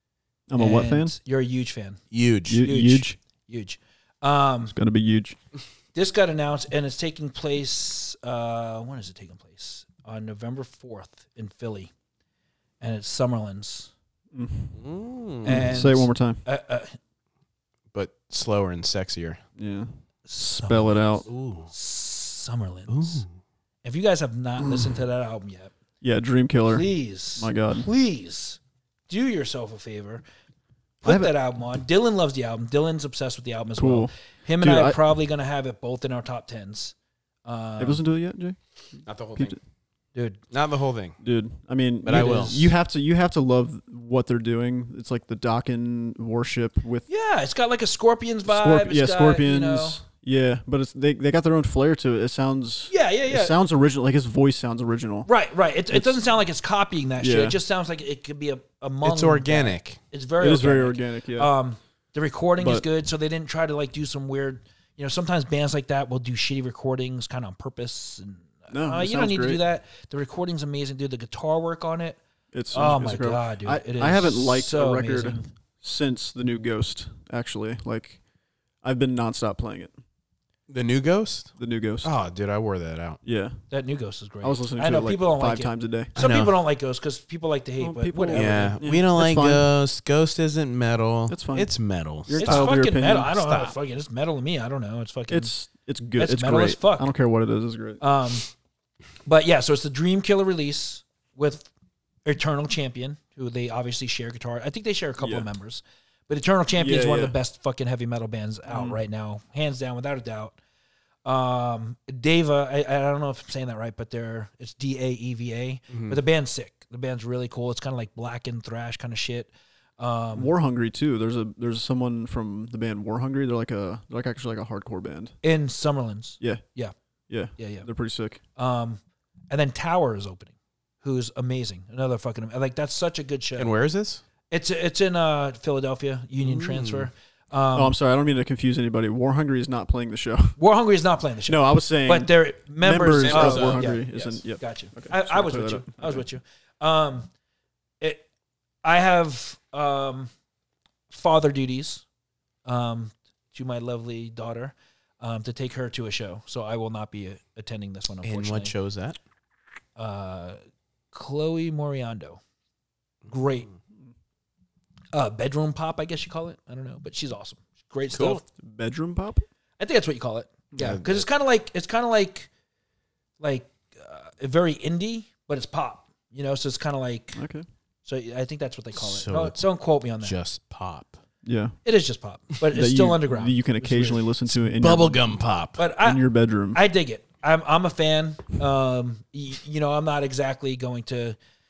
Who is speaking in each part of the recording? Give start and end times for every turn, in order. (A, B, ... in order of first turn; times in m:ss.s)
0:00.5-0:01.2 A
0:00.6-0:02.0 B
0:02.1-0:02.6 C
0:02.5-0:03.2 A
0:02.6-0:04.7 B
0:04.6-0:05.4 A
0:05.9-0:11.9 B
0:12.8-0:13.9 B
0:14.3-0:14.8 A
0:14.8-0:15.8 C
0:15.4-0:16.4 A
0:15.4-0:17.0 B
0:17.9-0:19.4 C
0:19.6-0:21.3 A
0:20.3-0:23.2 B
0:21.3-0:21.7 C
0:22.9-0:23.3 C
0:23.8-0:25.7 B
0:26.0-0:27.9 A
0:26.7-0:30.2 B
0:31.0-0:38.0 B
0:31.0-0:31.3 A
0:33.8-0:35.0 A
0:37.8-0:38.6 A
0:39.1-0:39.6 C
0:40.2-0:40.4 B
0:40.5-0:41.2 C
0:41.2-0:47.1 A
0:42.0-0:42.6 C
0:42.1-0:42.6 B
0:47.1-0:50.0 B
0:48.5-0:55.3 A
0:52.9-0:53.6 B
0:55.3-1:12.2 B
0:55.9-0:56.2 A
0:57.2-0:57.6 A
0:59.0-1:00.0 C
1:00.4-1:01.5 A
1:02.6-1:02.9 A
1:08.7-1:09.6 A
1:12.5-1:18.2 A
1:12.7-1:15.5 B
1:18.8-1:19.9 A
1:20.7-1:23.2 C
1:21.6-1:22.1 A
1:23.2-1:23.6 A
1:23.7-1:28.8 B
1:24.4-1:26.1 A
1:26.2-1:26.6 C
1:27.8-1:29.7 A
1:28.3-1:32.7 C
1:31.3-1:31.7 A
1:32.3-1:33.3 A
1:32.4-1:35.5 B
1:33.3-1:33.8 C
1:35.3-1:38.0 A
1:36.2-1:37.1 B
1:38.0-1:38.5 B
1:39.2-1:41.7 B
1:42.2-1:50.6 B
1:45.2-1:45.5 A
1:46.7-1:47.4 A
1:48.7-1:49.0 A
1:51.2-2:00.5 B
1:55.9-1:56.2 C
2:00.4-2:05.3 A
2:05.4-2:06.9 B
2:07.3-2:08.4 A
2:07.6-2:07.9 B
2:08.6-2:13.7 B
2:13.6-2:14.2 C
2:14.5-2:18.0 B
2:16.4-2:17.1 C
2:17.7-2:20.6 A
2:20.6-2:27.3 B
2:21.5-2:26.2 A
2:23.2-2:23.9 C
2:28.0-2:28.3 B
2:28.8-2:30.3 B
2:31.1-2:32.0 B
2:32.7-2:38.7 B
2:38.2-2:39.2 C
2:40.0-2:40.6 B
2:41.1-2:42.4 B
2:43.3-2:43.7 B
2:45.1-2:48.4 B
2:48.1-2:48.4 C
2:48.6-2:49.4 A
2:49.8-2:52.5 B
2:50.8-2:51.2 C
2:53.4-2:57.4 B
2:57.4-2:57.6 A
2:58.0-3:00.4 B
2:59.0-2:59.7 C
3:00.2-3:01.2 C
3:01.4-3:01.8 A
3:01.8-3:04.3 B
3:02.6-3:05.3 A
3:04.8-3:05.8 C
3:05.8-3:11.4 B
3:06.0-3:06.8 A